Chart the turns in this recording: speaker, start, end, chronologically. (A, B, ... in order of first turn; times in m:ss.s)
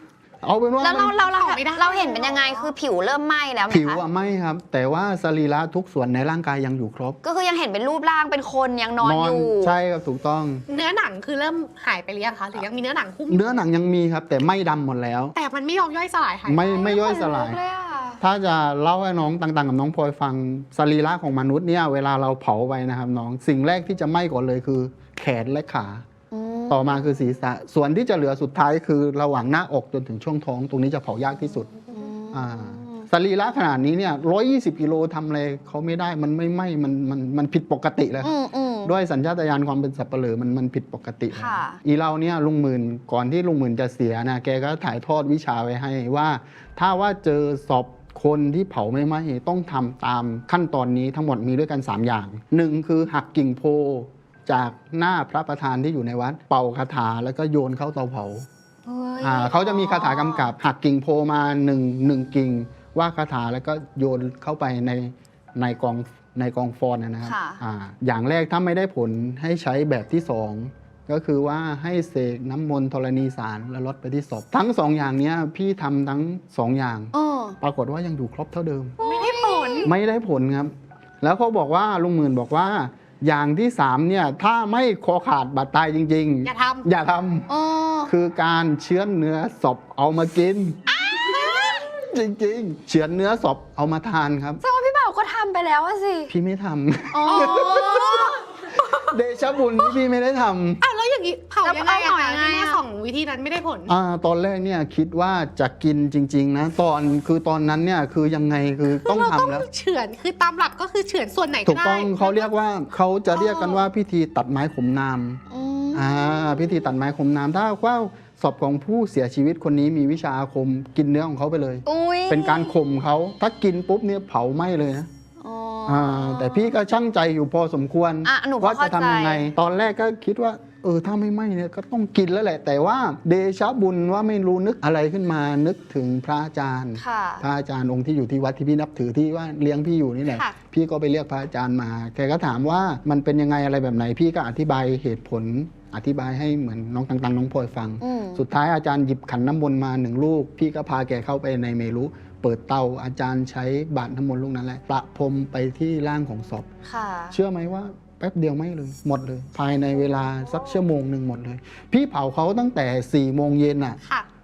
0:00.4-0:01.2 A
0:00.8-0:04.0 B
0:01.0-0:02.7 C
0:03.7-0:07.2 A
0:07.2-0:09.7 B
0:09.0-0:10.6 A
0:10.7-0:13.6 C
0:13.3-0:15.3 A
0:15.3-0:16.9 C
0:16.5-0:17.6 A
0:16.7-0:18.2 B
0:18.2-0:26.0 A
0:26.3-0:27.2 B
0:26.7-0:31.7 A
0:31.9-0:33.1 B
0:32.3-0:58.5 A
0:38.2-0:38.9 B
0:41.3-0:41.8 B
0:58.8-1:00.5 B
0:59.2-1:19.0 A
1:07.2-1:07.6 B
1:17.1-1:17.6 B
1:19.0-1:19.9 B
1:19.0-1:19.9 C
1:19.8-1:27.5 A
1:26.4-1:26.9 C
1:27.5-1:28.1 B
1:28.0-1:34.6 A
1:30.9-1:31.9 B
1:34.6-1:36.3 B
1:36.3-1:38.4 A
1:37.1-1:38.4 B
1:37.3-1:39.0 C
1:38.9-1:40.8 A
1:40.8-1:43.9 C
1:41.6-1:42.8 B
1:43.9-1:49.7 A
1:48.9-1:52.5 C
1:51.6-1:55.4 A
1:53.4-1:53.8 C
1:55.5-1:56.9 B
1:55.9-2:05.1 A
2:01.8-2:02.7 B
2:05.4-2:06.7 B
2:05.9-2:36.7 A
2:08.2-2:09.5 B
2:17.0-2:17.4 B
2:20.3-2:20.6 C
2:28.0-2:28.4 B
2:36.8-2:37.4 B
2:37.3-2:44.0 A
2:40.1-2:40.8 B